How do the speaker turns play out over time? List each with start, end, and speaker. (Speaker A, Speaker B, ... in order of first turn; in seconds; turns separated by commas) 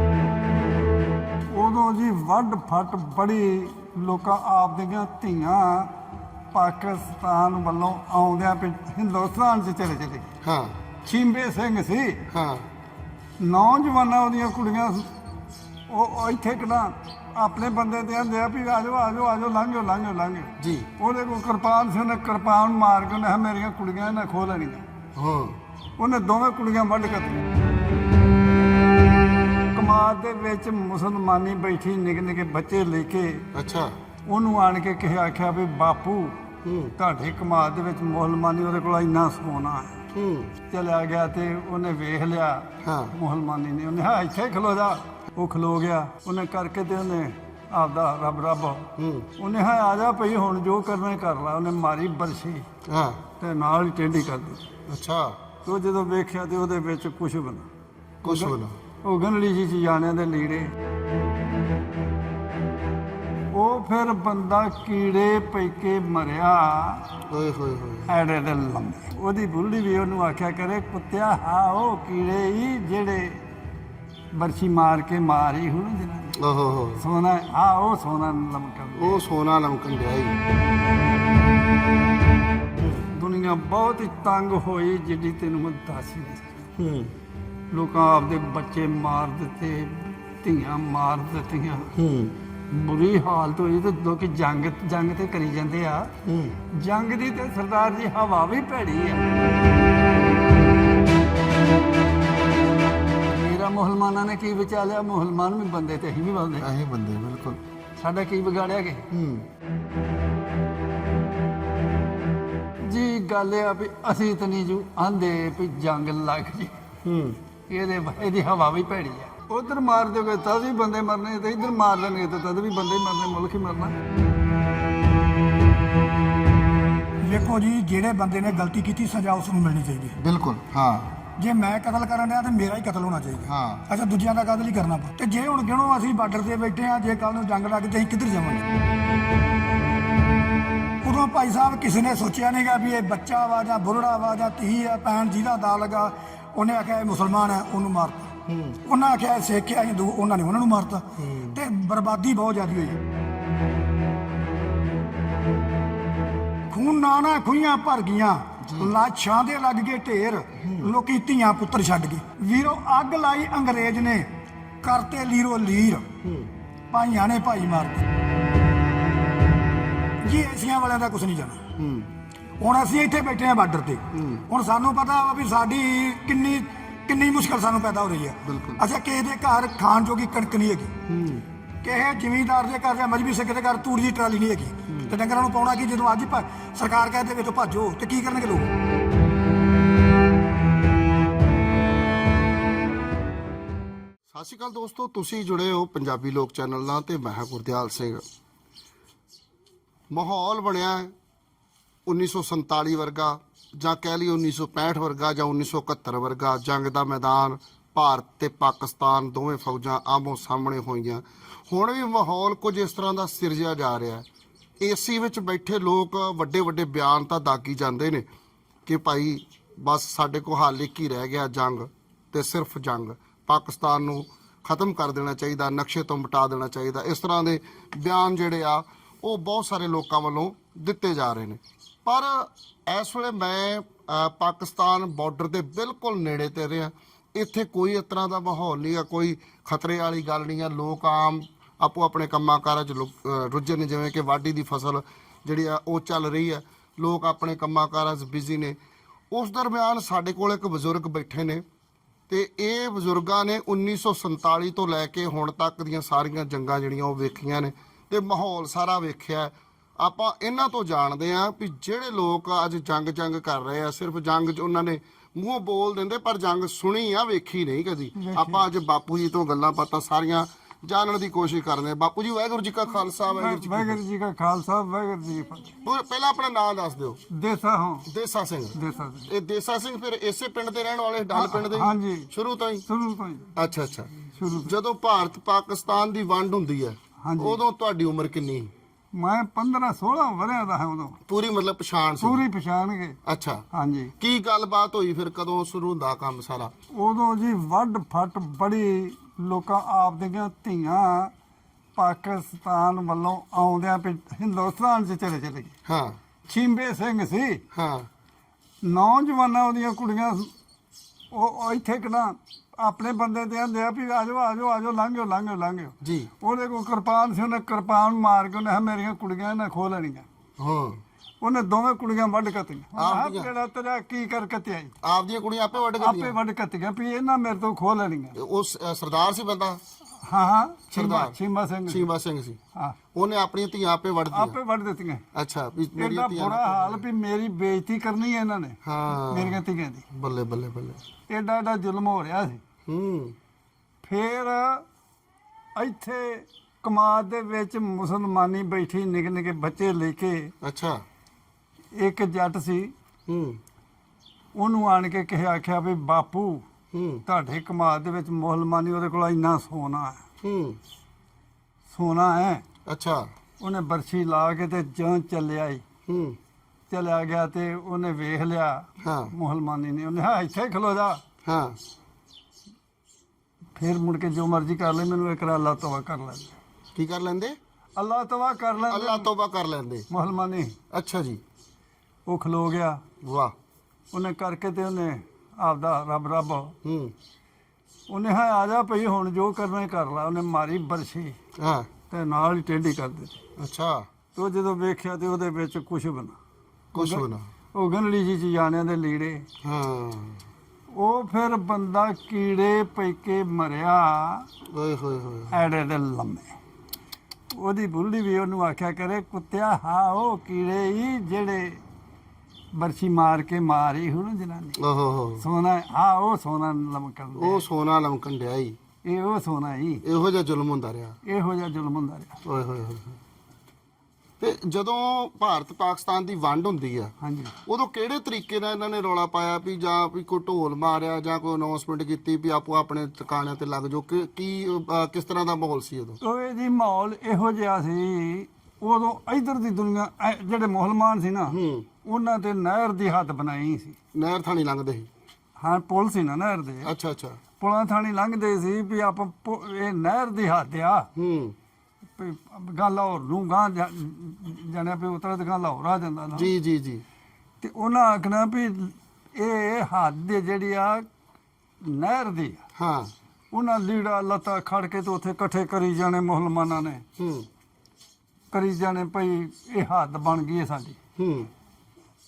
Speaker A: 1.5-5.9, Speaker A: 6.5-10.3, Speaker B: 10.4-10.8, Speaker A: 11.0-12.2, Speaker B: 12.3-12.7, Speaker A: 13.4-15.1, Speaker A: 15.9-24.8, Speaker B: 20.6-20.9, Speaker B: 25.1-25.6, Speaker A: 26.0-27.4, Speaker A: 29.7-33.5, Speaker B: 33.5-33.9, Speaker A: 34.3-36.4, Speaker B: 36.6-36.9, Speaker A: 37.0-39.9, Speaker B: 40.1-40.5, Speaker A: 40.7-52.6, Speaker B: 42.8-43.1, Speaker B: 49.0-49.3, Speaker B: 52.9-53.2, Speaker A: 53.4-54.6, Speaker B: 54.9-55.4, Speaker A: 55.6-57.7, Speaker B: 58.2-58.8, Speaker A: 58.2-60.7, Speaker A: 63.5-67.1, Speaker B: 67.3-68.1, Speaker A: 68.1-73.4, Speaker A: 74.3-76.4, Speaker B: 76.4-77.0, Speaker A: 77.0-79.2, Speaker B: 79.0-80.4, Speaker A: 83.1-86.5, Speaker B: 86.8-87.1, Speaker A: 87.7-91.9, Speaker B: 92.0-92.3, Speaker A: 92.7-96.1, Speaker B: 96.2-96.6, Speaker A: 96.7-99.3, Speaker A: 103.3-106.7, Speaker B: 106.6-107.6, Speaker A: 108.0-109.1, Speaker B: 109.1-109.5, Speaker A: 112.8-116.7, Speaker B: 117.0-117.4, Speaker A: 117.7-123.9, Speaker C: 127.2-130.1, Speaker B: 130.2-131.1, Speaker C: 131.4-138.6, Speaker B: 133.4-133.9, Speaker C: 141.0-148.3, Speaker B: 148.5-148.8, Speaker C: 148.8-153.0, Speaker B: 151.2-151.6, Speaker C: 156.7-164.3, Speaker B: 158.6-158.9, Speaker B: 160.6-160.9, Speaker C: 164.8-166.1, Speaker B: 166.2-166.5, Speaker C: 166.9-168.1, Speaker C: 170.2-171.6, Speaker B: 171.8-172.1, Speaker C: 172.6-180.9, Speaker B: 174.1-174.5, Speaker B: 178.4-178.8, Speaker B: 181.1-181.4, Speaker C: 181.8-188.7, Speaker B: 184.9-185.1, Speaker B: 194.3-198.2, Speaker B: 200.1-201.1, Speaker B: 202.1-214.2, Speaker B: 214.8-218.2, Speaker B: 218.8-248.8, Speaker B: 249.3-251.6, Speaker B: 252.3-274.0, Speaker A: 268.1-268.6, Speaker A: 273.3-275.7, Speaker B: 275.8-277.2, Speaker A: 277.3-278.1, Speaker B: 278.1-282.9, Speaker A: 278.7-279.3, Speaker A: 281.3-282.3, Speaker A: 282.9-283.5, Speaker B: 283.6-284.1, Speaker A: 284.4-284.7, Speaker B: 284.6-288.7, Speaker A: 287.2-287.6, Speaker A: 289.1-291.2, Speaker B: 291.2-292.4, Speaker A: 292.2-293.2, Speaker B: 293.2-293.6, Speaker A: 293.7-294.1, Speaker B: 294.2-296.7, Speaker A: 296.9-301.3, Speaker A: 301.9-305.7, Speaker B: 305.9-306.2, Speaker A: 306.5-307.6, Speaker B: 307.7-308.1, Speaker A: 308.8-310.5, Speaker A: 311.3-320.2, Speaker B: 316.0-316.3, Speaker B: 320.6-321.0, Speaker A: 321.4-324.9, Speaker B: 322.9-323.5, Speaker B: 325.0-326.4, Speaker A: 326.0-328.3, Speaker B: 328.3-329.8, Speaker A: 330.2-332.1, Speaker B: 330.9-331.4, Speaker B: 331.9-332.6, Speaker B: 333.1-334.6, Speaker A: 334.3-335.2, Speaker B: 335.3-337.0, Speaker A: 336.0-340.0, Speaker B: 338.8-339.6, Speaker B: 340.1-341.0, Speaker A: 341.3-342.6, Speaker B: 342.9-343.3, Speaker A: 344.0-344.8, Speaker A: 345.8-350.5, Speaker B: 350.6-351.0, Speaker A: 351.9-352.9, Speaker B: 353.3-353.6, Speaker A: 354.6-356.6, Speaker B: 356.9-357.2, Speaker A: 357.3-360.2, Speaker B: 360.4-360.8, Speaker A: 361.9-362.6, Speaker B: 362.9-363.3, Speaker A: 363.6-365.8, Speaker B: 366.1-366.4, Speaker A: 366.9-371.2, Speaker B: 369.0-369.3, Speaker B: 371.4-371.8, Speaker A: 373.7-376.6, Speaker B: 376.9-377.6, Speaker A: 378.0-379.3, Speaker B: 378.9-380.1, Speaker A: 380.1-380.8, Speaker B: 380.9-381.4, Speaker A: 382.2-383.0, Speaker B: 383.2-383.5, Speaker A: 384.1-386.7, Speaker B: 386.8-387.1, Speaker A: 388.1-391.4, Speaker B: 391.6-391.9, Speaker A: 392.1-393.4, Speaker B: 393.6-394.1, Speaker A: 394.3-396.4, Speaker B: 396.9-397.5, Speaker A: 396.9-399.4, Speaker B: 399.6-400.4, Speaker A: 400.9-404.5, Speaker B: 404.7-405.6, Speaker A: 405.5-406.5, Speaker A: 407.5-411.8, Speaker A: 412.7-414.8, Speaker B: 414.8-415.4, Speaker A: 415.4-417.6, Speaker B: 417.4-418.8, Speaker A: 419.0-420.0, Speaker B: 420.0-421.2, Speaker A: 421.2-422.4, Speaker B: 422.4-423.1, Speaker B: 424.4-427.1, Speaker A: 427.2-427.6, Speaker B: 427.6-436.2, Speaker A: 436.2-444.0, Speaker B: 441.5-441.9, Speaker B: 444.1-445.1, Speaker A: 445.6-446.9, Speaker B: 446.8-447.4, Speaker A: 447.6-451.1, Speaker B: 451.1-451.5, Speaker A: 452.2-456.5, Speaker B: 456.3-457.0, Speaker A: 457.6-461.1, Speaker A: 461.8-462.6, Speaker B: 462.8-463.1, Speaker A: 463.5-467.0, Speaker B: 467.2-467.5, Speaker A: 468.5-471.0, Speaker B: 471.2-471.5